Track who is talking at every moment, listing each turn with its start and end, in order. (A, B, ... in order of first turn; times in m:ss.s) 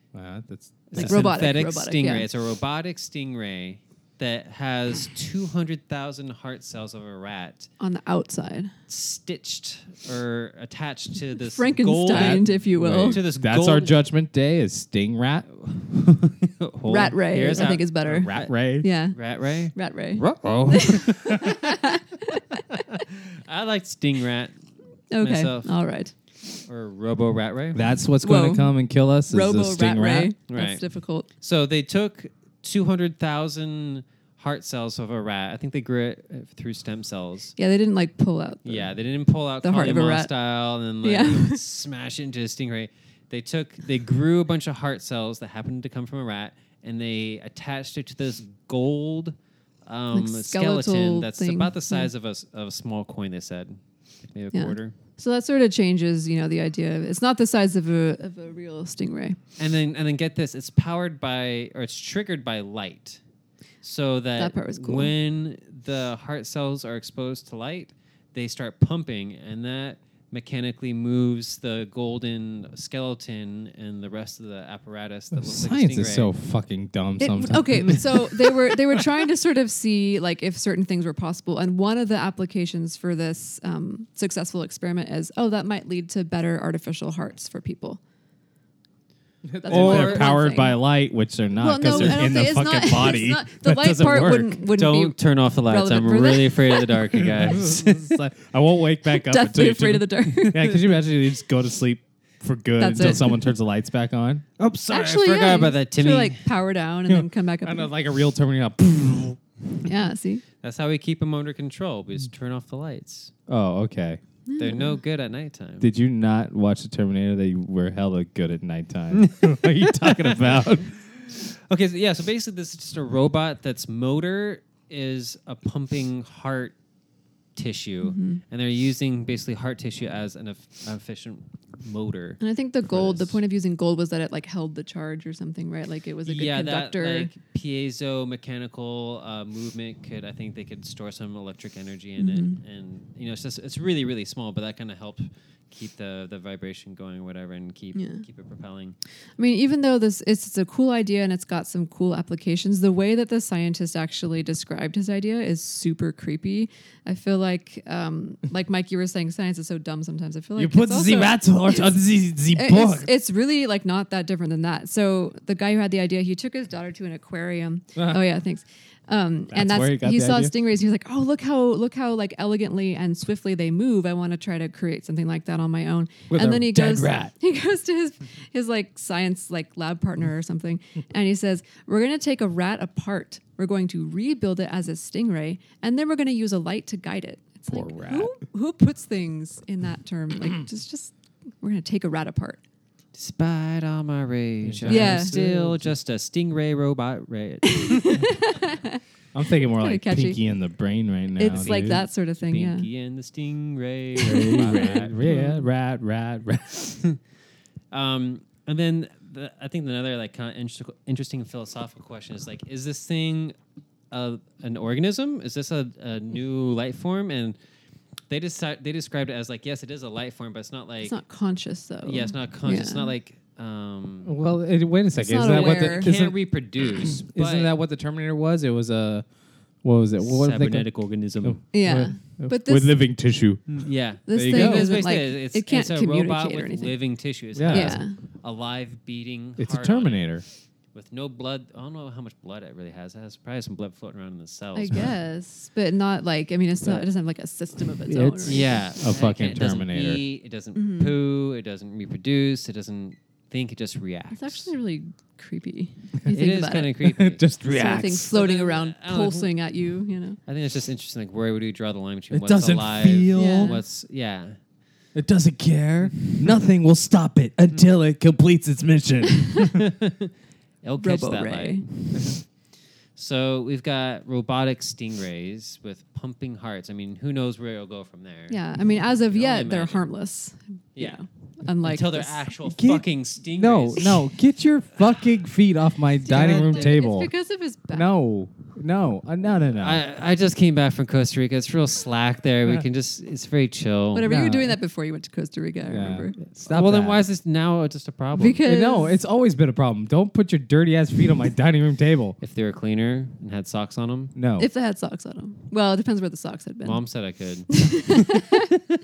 0:00.1-0:01.3 A
0:00.9-0:07.7 B
0:00.9-0:02.3 C
0:07.8-0:08.7 C
0:08.9-0:12.5 B
0:11.4-0:13.2 C
0:12.1-0:15.5 A
0:13.0-0:14.0 B
0:15.5-0:18.6 B
0:16.9-0:19.2 C
0:18.3-0:18.8 A
0:19.1-0:21.9 B
0:19.7-0:23.0 C
0:20.2-0:21.6 A
0:22.5-0:24.6 B
0:25.1-0:26.1 C
0:25.2-0:25.7 B
0:26.6-0:27.9 B
0:27.7-0:30.3 A
0:28.2-0:28.7 C
0:29.3-0:31.3 C
0:30.5-0:30.8 B
0:31.4-0:37.5 B
0:37.6-0:38.9 C
0:38.6-0:49.3 B
0:39.6-0:40.3 C
0:41.0-0:41.6 C
0:49.8-0:55.0 B
0:50.1-0:52.1 C
0:54.5-0:59.4 C
0:59.6-1:03.2 B
1:03.8-1:16.3 B
1:04.4-1:05.1 C
1:15.3-1:19.1 A
1:17.2-1:28.0 C
1:29.4-1:34.6 A
1:29.6-1:30.8 C
1:29.7-1:30.3 B
1:31.6-1:37.0 C
1:34.6-1:38.1 B
1:37.2-1:44.4 A
1:39.1-1:40.9 C
1:42.8-1:43.4 C
1:44.6-1:46.5 B
1:44.9-1:47.9 C
1:47.1-1:49.4 A
1:49.8-1:50.4 C
1:50.6-1:53.3 B
1:53.5-1:54.2 A
1:54.5-1:55.0 C
1:54.6-1:55.9 B
1:55.8-2:01.0 A
1:59.1-2:06.8 B
2:07.6-2:13.4 B
2:08.0-2:08.4 C
2:12.4-2:17.3 C
2:16.3-2:29.0 B
2:22.2-2:22.6 C
2:27.9-2:28.2 C
2:29.4-2:41.9 C
2:40.6-2:43.1 A
2:42.5-3:12.6 C
2:48.0-2:48.2 A
2:49.5-2:50.5 A
2:56.3-2:57.3 A
3:07.7-3:08.3 A
3:13.1-3:18.6 B
3:14.6-3:15.9 A
3:14.9-3:15.3 C
3:17.6-3:19.0 C
3:19.3-3:22.0 A
3:19.6-3:20.4 C
3:21.4-3:22.9 C
3:21.6-3:25.4 B
3:24.2-3:25.6 C
3:24.2-3:27.0 A
3:27.9-3:33.6 B
3:34.1-3:37.6 B
3:38.3-3:41.1 B
3:41.0-3:43.1 C
3:42.0-3:44.3 B
3:44.2-3:49.2 A
3:45.2-3:46.1 C
3:45.4-3:47.7 B
3:49.8-3:50.9 A
3:50.2-3:51.6 B
3:51.4-3:54.9 A
3:51.7-3:52.9 C
3:53.7-4:00.3 B
3:54.3-3:56.9 C
3:57.5-3:58.0 A
3:57.7-3:58.2 C
3:59.6-4:00.4 A
4:00.9-4:05.0 B
4:04.7-4:08.8 C
4:08.1-4:10.2 A
4:08.4-4:14.7 B
4:10.7-4:11.2 C
4:14.3-4:16.9 C
4:16.3-4:17.5 B
4:17.0-4:18.3 A
4:17.6-4:20.4 C
4:18.3-4:19.5 B
4:20.4-4:24.6 B
4:22.3-4:23.8 A
4:23.3-4:23.8 C
4:25.1-4:29.9 A
4:29.3-4:29.7 C
4:29.7-4:30.3 B
4:30.8-4:32.3 B
4:31.0-4:31.9 C
4:32.1-4:32.4 A
4:33.2-4:38.6 B
4:38.5-4:42.5 C
4:39.3-4:40.1 B
4:41.0-4:44.2 B
4:42.7-4:47.3 A
4:46.2-4:48.1 C
4:47.9-4:50.0 A
4:49.7-4:54.3 B
4:54.1-4:56.4 C
4:54.2-4:54.8 A
4:55.9-4:57.2 A
4:56.5-4:58.6 B
4:58.4-4:59.1 C
4:58.6-5:02.4 A
5:02.4-5:04.3 B
5:04.3-5:04.7 A
5:04.6-5:07.0 C
5:06.8-5:08.7 B
5:07.7-5:08.8 C